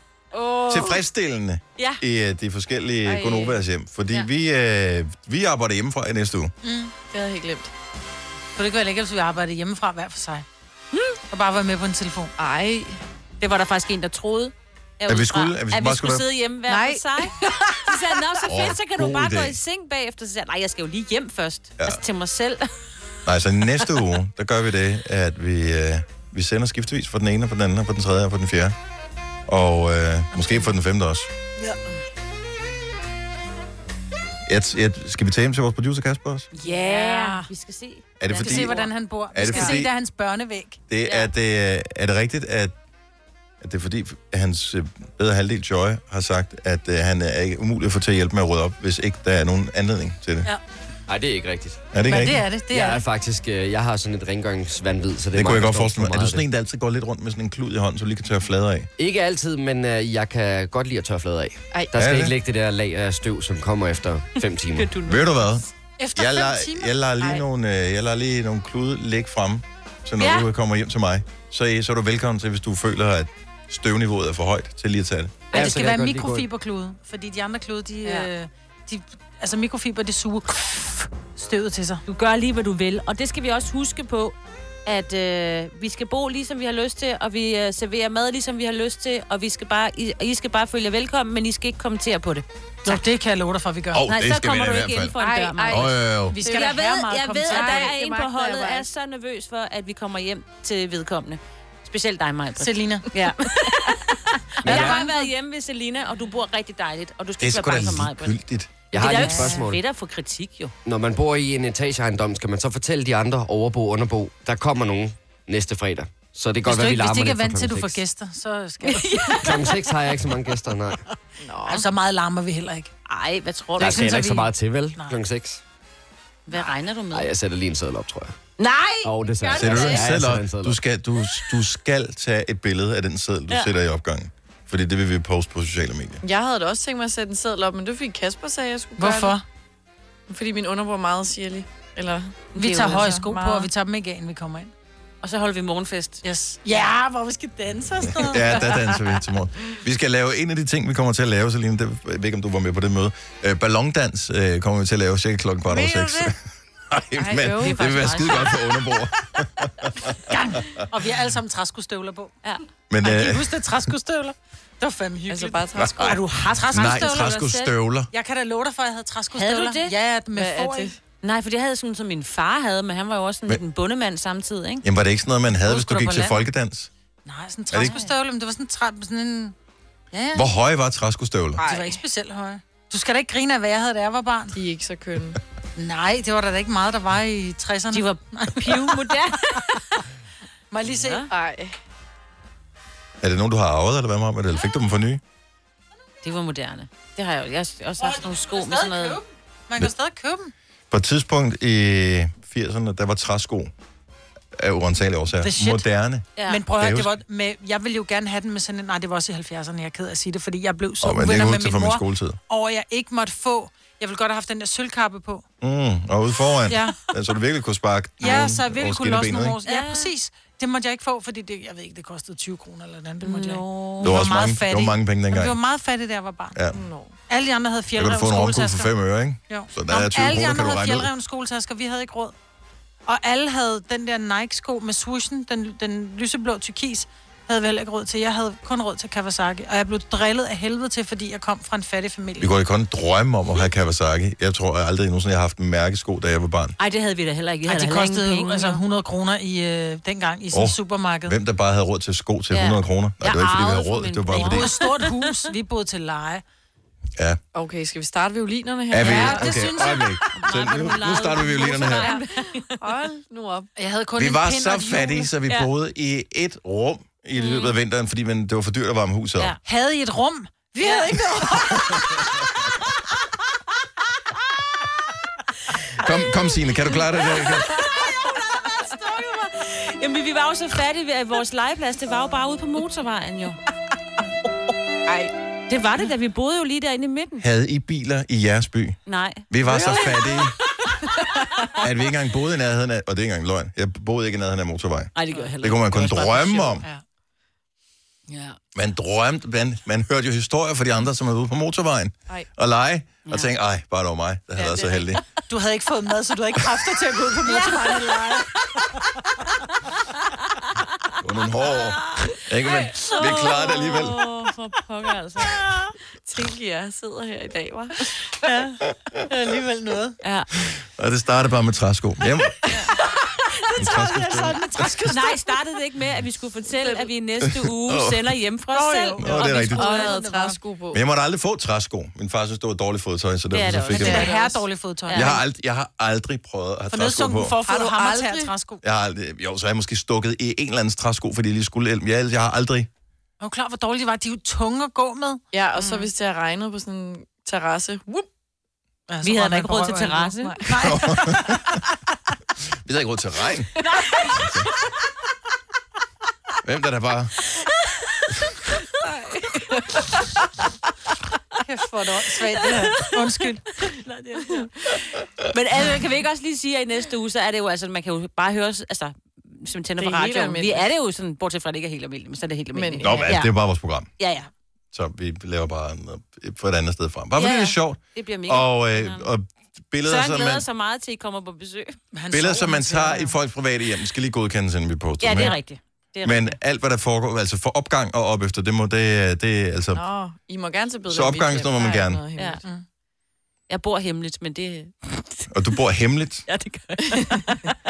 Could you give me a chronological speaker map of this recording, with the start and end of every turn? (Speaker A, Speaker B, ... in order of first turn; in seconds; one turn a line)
Speaker A: 0.3-0.9
Speaker B: 0.3-1.0
Speaker C: 0.7-6.5
Speaker B: 1.8-2.0
Speaker A: 3.0-3.6
Speaker D: 6.6-6.9
Speaker A: 7.1-7.7
Speaker D: 8.6-10.5
Speaker D: 11.3-12.3
Speaker A: 12.4-13.0
Speaker B: 13.4-22.7
Speaker C: 15.1-16.2
Speaker A: 16.7-17.8
Speaker C: 18.5-19.6
Speaker C: 23.3-28.8
Speaker C: 29.5-31.3
Speaker C: 34.5-36.5
Speaker B: 36.5-38.9
Speaker D: 36.6-37.5
Speaker C: 38.2-38.8
Speaker D: 38.3-40.8
Speaker C: 39.3-39.9
Speaker B: 39.5-39.8
Speaker C: 40.9-42.7
Speaker B: 41.0-41.3
Speaker C: 43.6-50.5
Speaker E: 51.1-51.8
Speaker C: 51.9-52.5
Speaker D: 52.0-53.0
Speaker E: 52.7-56.4
Speaker C: 55.3-58.9
Speaker E: 59.0-64.9
Speaker C: 62.0-62.3
Speaker B: 64.7-65.6
Speaker C: 65.1-75.4
Speaker D: 66.0-67.0
Speaker B: 70.2-70.5
Speaker B: 75.5-75.8
Speaker E: 75.5-76.5
Speaker D: 75.5-82.0
Speaker B: 82.1-93.0
Speaker D: 92.8-94.1
Speaker C: 93.9-95.2
Speaker B: 94.0-108.4
Speaker A: 95.2-96.8
Speaker C: 95.7-96.4
Speaker D: 96.3-98.0
Speaker A: 97.4-98.9
Speaker D: 102.6-103.1
Speaker E: 104.6-105.0
Speaker D: 104.7-105.3
Speaker C: 107.4-108.7
Speaker E: 108.9-109.8
Speaker B: 108.9-110.7
Speaker D: 109.0-109.6
Speaker E: 110.8-118.0
Speaker D: 116.7-119.5
Speaker B: 118.8-119.7
Speaker E: 119.4-121.0
Speaker A: 121.4-121.9
Speaker D: 121.7-122.9
Speaker B: 123.1-124.2
Speaker E: 123.8-125.6
Speaker D: 123.8-125.2
Speaker B: 126.5-127.3
Speaker E: 127.1-128.3
Speaker B: 128.6-130.0
Speaker E: 129.0-130.8
Speaker C: 129.6-136.2
Speaker A: 136.2-139.4
Speaker D: 139.0-139.4
Speaker A: 140.3-143.7
Speaker B: 142.6-143.2
Speaker D: 142.6-144.7
Speaker B: 145.2-146.2
Speaker D: 146.2-148.9
Speaker C: 148.1-156.3
Speaker D: 155.8-156.1
Speaker C: 156.9-160.3
Speaker A: 157.2-158.0
Speaker B: 157.4-158.6
Speaker D: 160.3-162.3
Speaker C: 162.9-163.6
Speaker D: 163.0-167.4
Speaker A: 165.3-166.2
Speaker C: 165.8-168.1
Speaker B: 166.7-167.7
Speaker D: 168.1-170.9
Speaker B: 169.3-169.9
Speaker A: 170.3-171.0
Speaker B: 171.2-174.8
Speaker C: 174.8-176.9
Speaker B: 175.7-176.4
Speaker D: 177.2-179.6
Speaker B: 177.8-178.1
Speaker D: 180.1-180.5
Speaker C: 180.3-181.6
Speaker A: 181.6-182.0
Speaker D: 181.6-184.6
Speaker A: 184.5-185.4
Speaker D: 185.8-189.3
Speaker B: 187.9-190.0
Speaker D: 190.7-191.3
Speaker B: 190.9-191.3
Speaker A: 191.3-191.8
Speaker C: 193.2-195.2
Speaker B: 196.2-199.2
Speaker D: 198.0-200.5
Speaker C: 200.9-203.7
Speaker C: 204.6-207.1
Speaker D: 205.4-205.8
Speaker B: 206.4-206.6
Speaker D: 206.5-215.4
Speaker C: 211.0-212.4
Speaker C: 215.6-219.6
Speaker D: 216.7-217.0
Speaker D: 218.2-226.6
Speaker B: 219.7-220.1
Speaker B: 223.2-224.2
Speaker C: 224.0-225.6
Speaker C: 226.6-226.8
Speaker A: 226.7-227.2
Speaker D: 227.3-228.9
Speaker C: 227.9-231.1
Speaker D: 229.5-232.3
Speaker D: 233.1-242.5
Speaker C: 242.4-246.8
Speaker B: 246.8-248.8
Speaker D: 247.7-251.4
Speaker C: 250.5-254.8
Speaker B: 252.5-255.3
Speaker D: 254.3-256.4
Speaker A: 257.5-259.7
Speaker C: 258.9-262.1
Speaker B: 259.0-262.8
Speaker D: 259.1-260.2
Speaker A: 261.8-263.7
Speaker D: 263.8-265.3
Speaker C: 264.2-269.5
Speaker B: 267.4-267.8
Speaker D: 269.6-272.3
Speaker B: 270.8-271.2
Speaker C: 276.0-277.7
Speaker B: 277.4-278.3
Speaker D: 278.2-279.5
Speaker B: 279.4-283.6
Speaker A: 285.1-285.3
Speaker B: 285.7-287.4
Speaker C: 287.4-289.0
Speaker B: 289.1-290.9
Speaker C: 289.5-290.6
Speaker C: 291.8-296.9
Speaker B: 295.1-296.8
Speaker B: 298.3-298.6
Speaker C: 298.8-305.2
Speaker A: 304.6-305.1
Speaker D: 305.5-309.1
Speaker B: 307.4-308.4
Speaker C: 311.2-314.2
Speaker B: 311.8-315.9
Speaker A: 316.2-318.0
Speaker D: 319.3-320.2
Speaker B: 320.2-320.5
Speaker C: 320.6-322.6
Speaker D: 323.8-325.4
Speaker C: 323.8-324.7
Speaker B: 325.1-330.2
Speaker A: 326.8-327.1
Speaker C: 327.5-328.2
Speaker D: 328.7-330.6
Speaker C: 329.2-329.9
Speaker A: 329.8-331.0
Speaker C: 330.9-334.3
Speaker B: 333.5-335.4
Speaker D: 333.9-335.4
Speaker C: 335.1-337.6
Speaker D: 336.9-338.8
Speaker A: 337.6-338.5
Speaker C: 338.8-342.9
Speaker D: 343.4-345.4
Speaker A: 345.5-348.3
Speaker B: 345.8-346.1
Speaker D: 349.1-351.7
Speaker B: 349.2-350.6
Speaker C: 350.8-351.8
Speaker C: 352.9-353.7
Speaker B: 353.8-354.3
Speaker C: 354.3-354.7
Speaker C: 356.6-357.4
Speaker A: 359.3-360.1
Speaker D: 361.6-363.8
Speaker B: 362.6-373.5
Speaker A: 370.0-370.9
Speaker A: 372.7-373.3
Speaker C: 373.0-374.1
Speaker B: 374.2-374.5
Speaker C: 374.9-380.6
Speaker B: 377.4-379.3
Speaker B: 380.0-382.0
Speaker D: 382.1-383.3
Speaker C: 382.3-385.6
Speaker B: 385.2-386.6
Speaker C: 386.2-390.0
Speaker A: 389.9-392.6
Speaker C: 391.1-392.2
Speaker B: 392.4-392.6
Speaker B: 393.7-395.5
Speaker C: 395.5-396.5
Speaker B: 396.5-397.8